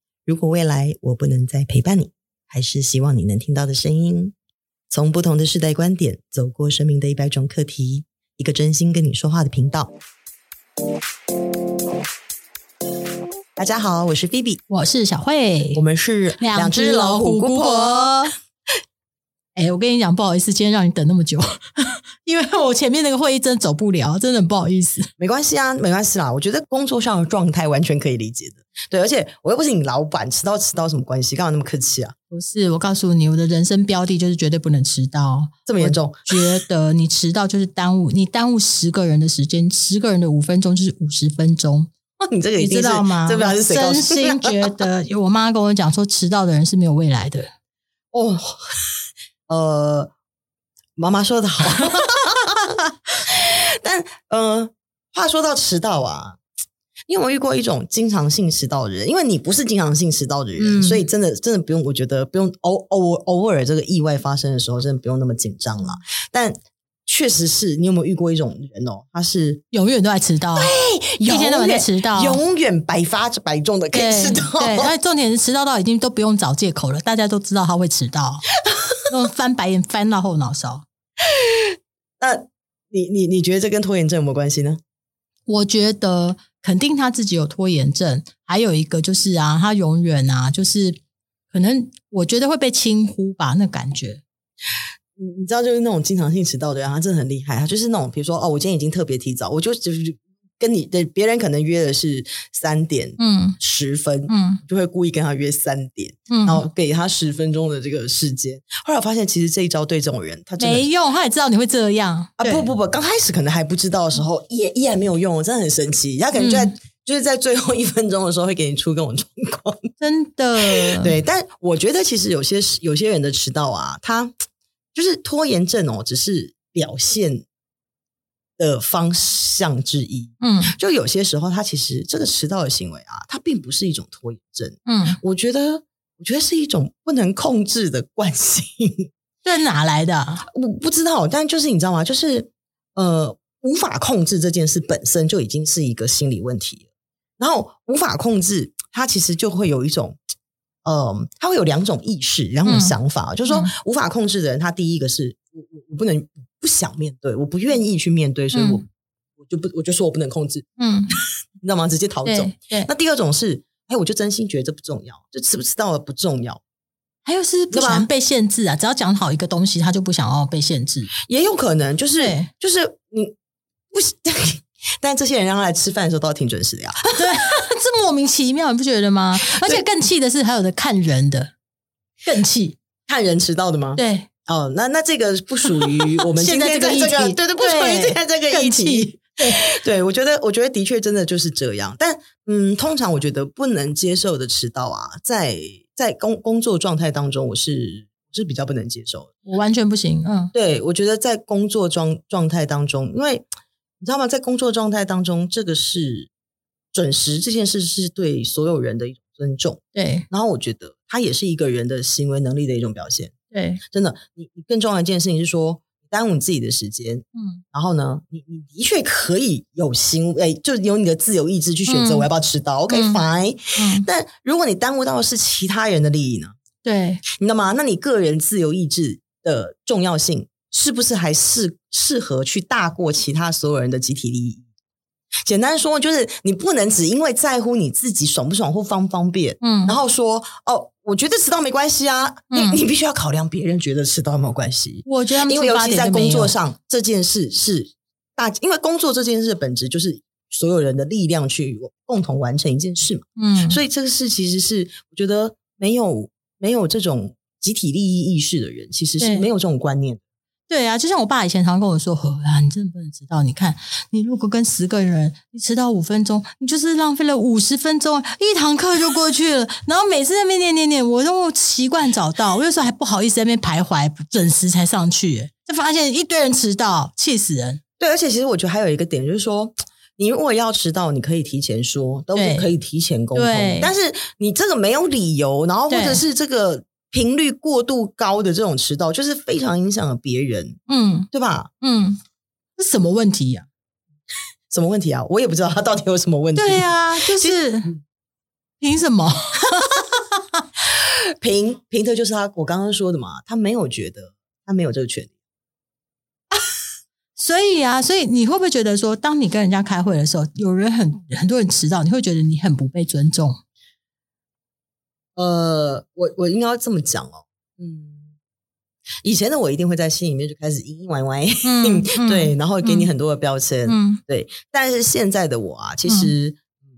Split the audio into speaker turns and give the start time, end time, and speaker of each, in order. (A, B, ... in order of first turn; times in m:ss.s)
0:00.2-0:04.3 A
0:04.9-0:09.9 A
0:13.6-0:14.6 A
0:14.7-0:15.8 B
0:15.7-0:18.3 A
0:16.4-0:18.3 B
0:19.6-0:25.1 B
0:25.2-0:32.1 A
0:32.3-0:41.9 B
0:35.6-0:36.6 A
0:42.2-0:44.8 A
0:42.6-0:47.5 B
0:48.1-0:48.6 A
0:49.5-0:50.1 A
0:51.0-0:52.7 A
0:53.3-0:56.4 A
0:57.1-1:09.6 A
1:00.6-1:01.0 B
1:09.7-1:10.7 B
1:10.6-1:14.9 A
1:11.2-1:12.4 B
1:13.9-1:18.4 B
1:19.1-1:20.8 B
1:22.2-1:24.8 A
1:25.5-1:31.0 B
1:31.5-1:34.2 B
1:35.2-1:50.9 A
1:43.2-1:43.6 B
1:44.3-1:44.6 B
1:46.3-1:46.6 B
1:50.6-1:52.7 B
1:52.4-1:59.9 A
1:56.3-1:56.7 B
2:00.0-2:01.1 B
2:00.6-2:04.3 A
2:04.9-2:07.4 A
2:08.6-2:19.1 A
2:10.4-2:10.7 B
2:14.8-2:15.2 B
2:19.4-2:20.4 B
2:20.5-2:26.8 A
2:27.4-2:30.2 A
2:30.8-2:38.8 A
2:32.6-2:33.7 B
2:38.5-2:38.8 B
2:39.4-2:40.6 A
2:40.8-2:41.1 B
2:41.6-2:46.6 A
2:42.2-2:42.9 B
2:47.2-2:51.1 B
2:47.7-2:48.1 A
2:51.2-2:53.3 A
2:52.2-2:52.5 B
2:53.9-2:57.2 A
2:57.2-3:01.5 B
2:59.5-2:59.8 A
3:02.2-3:02.8 B
3:03.1-3:19.3 A
3:04.0-3:04.3 B
3:06.2-3:09.6 B
3:19.4-3:20.5 B
3:20.5-3:23.5 A
3:24.0-3:26.3 A
3:26.9-3:33.3 A
3:29.9-3:30.3 B
3:33.5-3:33.8 B
3:33.9-3:46.6 A
3:37.3-3:37.6 B
3:41.9-3:42.3 B
3:42.9-3:43.2 B
3:43.8-3:44.1 B
3:46.8-3:47.2 B
3:47.4-3:54.6 A
3:55.4-4:20.2 A
3:59.6-4:00.0 B
4:02.5-4:02.8 B
4:05.0-4:06.5 B
4:13.4-4:13.8 B
4:19.2-4:19.4 B
4:20.7-4:37.8 B
4:38.0-4:50.8 A
4:42.3-4:42.7 B
4:43.3-4:43.9 B
4:45.9-4:46.2 B
4:50.9-4:51.3 B
4:51.3-4:51.7 A
4:51.8-4:52.2 B
4:52.8-4:53.7 B
4:54.7-4:58.0 A
4:56.6-4:57.9 B
4:58.8-5:00.6 B
5:01.0-5:05.3 A
5:07.4-5:13.6 B
5:15.4-5:18.3 A
5:19.2-5:26.6 A
5:21.6-5:23.1 B
5:23.8-5:24.2 B